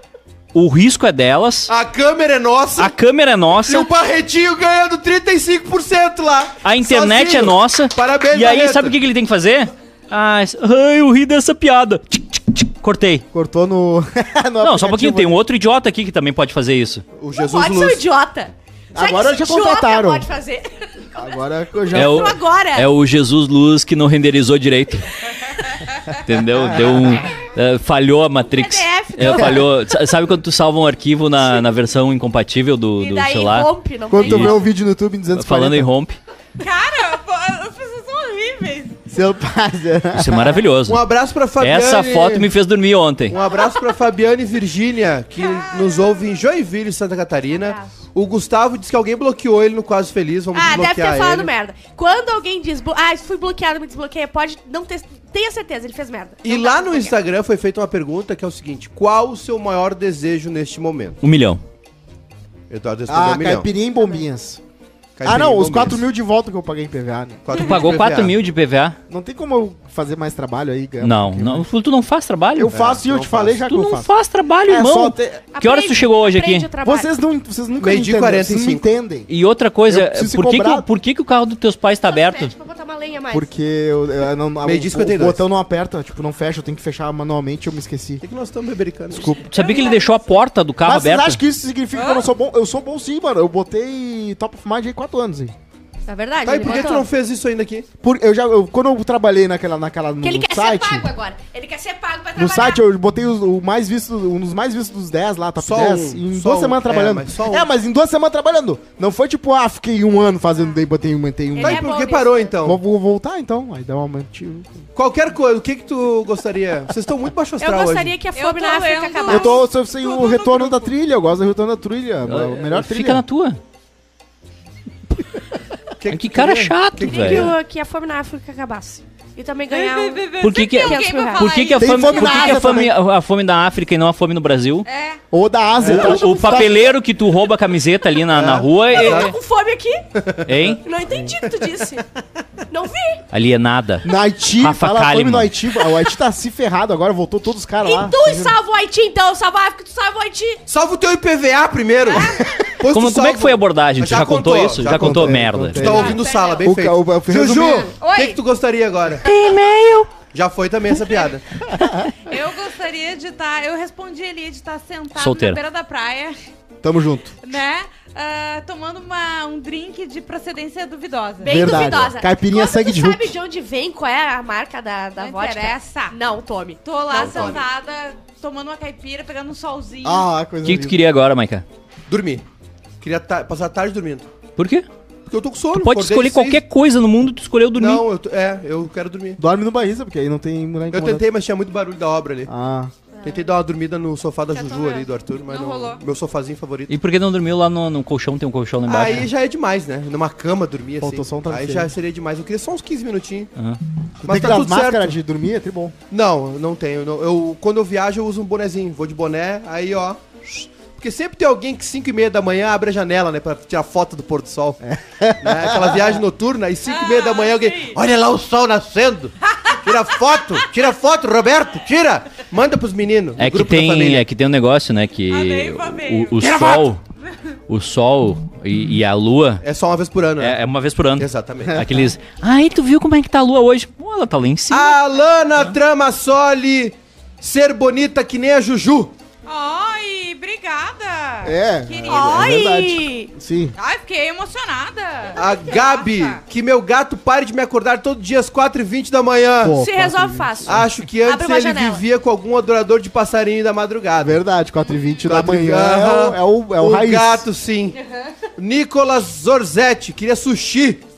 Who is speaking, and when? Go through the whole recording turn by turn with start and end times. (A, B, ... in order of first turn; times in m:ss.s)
0:00.5-0:01.7 A
0:01.7-0:03.0 B
0:02.8-0:03.9 A
0:03.6-0:09.0 B
0:06.6-0:13.2 A
0:13.3-0:15.4 C
0:14.6-0:17.0 A
0:17.2-0:18.0 B
0:17.4-0:20.8 D
0:18.9-0:20.3 C
0:21.1-0:22.4 C
0:21.9-0:25.1 A
0:21.9-0:22.9 D
0:26.2-0:33.7 A
0:26.7-0:27.0 C
0:28.5-0:29.6 D
0:33.0-0:34.7 D
0:34.1-0:35.9 C
0:34.2-0:34.6 A
0:35.3-0:36.2 A
0:36.6-0:39.0 E
0:39.1-0:40.6 C
0:40.1-0:41.0 A
0:40.9-0:42.5 B
0:41.6-0:43.4 A
0:43.3-0:51.5 B
0:45.4-0:46.2 E
0:47.5-0:47.9 D
0:50.5-0:57.2 D
0:56.4-1:01.2 B
1:01.2-1:01.6 A
1:02.7-1:03.7 B
1:03.1-1:04.6 C
1:05.2-1:06.0 B
1:05.2-1:07.5 C
1:07.4-1:08.4 B
1:07.5-1:09.0 A
1:09.1-1:11.6 C
1:11.0-1:12.7 A
1:12.5-1:14.1 C
1:12.7-1:13.6 B
1:13.6-1:16.7 A
1:14.7-1:15.4 C
1:15.5-1:17.1 D
1:16.8-1:19.3 C
1:17.8-1:18.8 B
1:19.3-1:22.5 A
1:19.9-1:20.8 C
1:22.0-1:23.5 D
1:23.3-1:28.2 C
1:24.6-1:25.4 B
1:28.2-1:29.4 B
1:29.1-1:29.5 C
1:29.5-1:31.4 A
1:29.5-1:30.4 D
1:29.6-1:30.0 E
1:30.8-1:35.5 C
1:31.9-1:32.3 E
1:36.1-1:37.1 D
1:36.4-1:37.8 B
1:38.0-1:41.1 C
1:40.2-1:42.8 D
1:42.4-1:52.0 C
1:45.6-1:47.7 B
1:51.5-1:52.5 D
1:51.6-1:52.8 B
1:52.6-1:54.8 C
1:54.9-1:58.2 B
1:57.6-1:59.6 D
1:58.4-2:00.9 E
1:59.3-2:03.2 C
2:02.2-2:03.6 A
2:06.0-2:07.5 B
2:06.1-2:07.5 A
2:07.0-2:11.5 D
2:09.7-2:12.6 E
2:10.4-2:14.9 A
2:11.8-2:13.0 C
2:14.8-2:15.2 E
2:15.3-2:16.8 C
2:15.8-2:16.1 B
2:15.8-2:19.4 A
2:18.3-2:19.3 B
2:18.9-2:20.0 D
2:20.2-2:20.5 B
2:20.4-2:20.8 A
2:20.8-2:22.0 D
2:21.1-2:21.4 C
2:22.7-2:23.2 D
2:23.3-2:25.5 A
2:24.0-2:28.6 C
2:27.8-2:30.6 D
2:30.7-2:39.2 B
2:32.2-2:32.6 D
2:32.9-2:36.0 A
2:34.8-2:37.9 C
2:35.8-2:36.6 E
2:35.9-2:36.6 D
2:38.0-2:38.4 E
2:39.2-2:40.2 A
2:40.3-2:41.4 B
2:41.8-2:42.1 C
2:42.2-2:46.3 E
2:45.2-2:45.6 A
2:46.8-2:47.3 C
2:47.4-2:51.9 E
2:51.4-2:57.6 D
2:51.4-2:53.3 C
2:55.2-2:56.2 E
2:56.8-3:00.3 E
2:57.1-2:57.6 B
3:00.0-3:01.0 C
3:00.6-3:01.6 A
3:02.1-3:02.4 B
3:03.0-3:04.3 B
3:04.6-3:04.9 A
3:05.3-3:06.6 B
3:05.7-3:08.0 A
3:07.7-3:09.4 B
3:09.4-3:11.2 C
3:10.9-3:12.5 B
3:12.5-3:12.9 C
3:13.1-3:13.5 D
3:13.2-3:16.9 B
3:14.6-3:15.1 D
3:14.6-3:16.0 E
3:16.9-3:19.3 A
3:18.9-3:23.5 B
3:21.0-3:21.9 C
3:24.2-3:25.2 B
3:24.2-3:25.9 C
3:26.1-3:34.8 B
3:34.8-3:36.2 C
3:35.4-3:44.2 B
3:36.9-3:38.0 E
3:39.5-3:39.8 E
3:43.4-3:47.0 A
3:45.3-3:46.4 E
3:46.4-3:46.9 B
3:47.7-3:49.6 A
3:49.6-3:50.6 B
3:50.4-3:55.0 A
3:51.2-3:51.8 B
3:51.7-3:52.1 C
3:54.7-3:59.1 B
3:59.4-4:02.6 E
4:01.4-4:03.7 C
4:02.1-4:03.3 D
4:03.8-4:06.4 E
4:05.3-4:09.8 B
4:09.6-4:10.9 C
4:09.8-4:12.0 D
4:10.6-4:14.4 B
4:14.2-4:17.4 C
4:15.2-4:18.0 B
4:18.6-4:21.0 B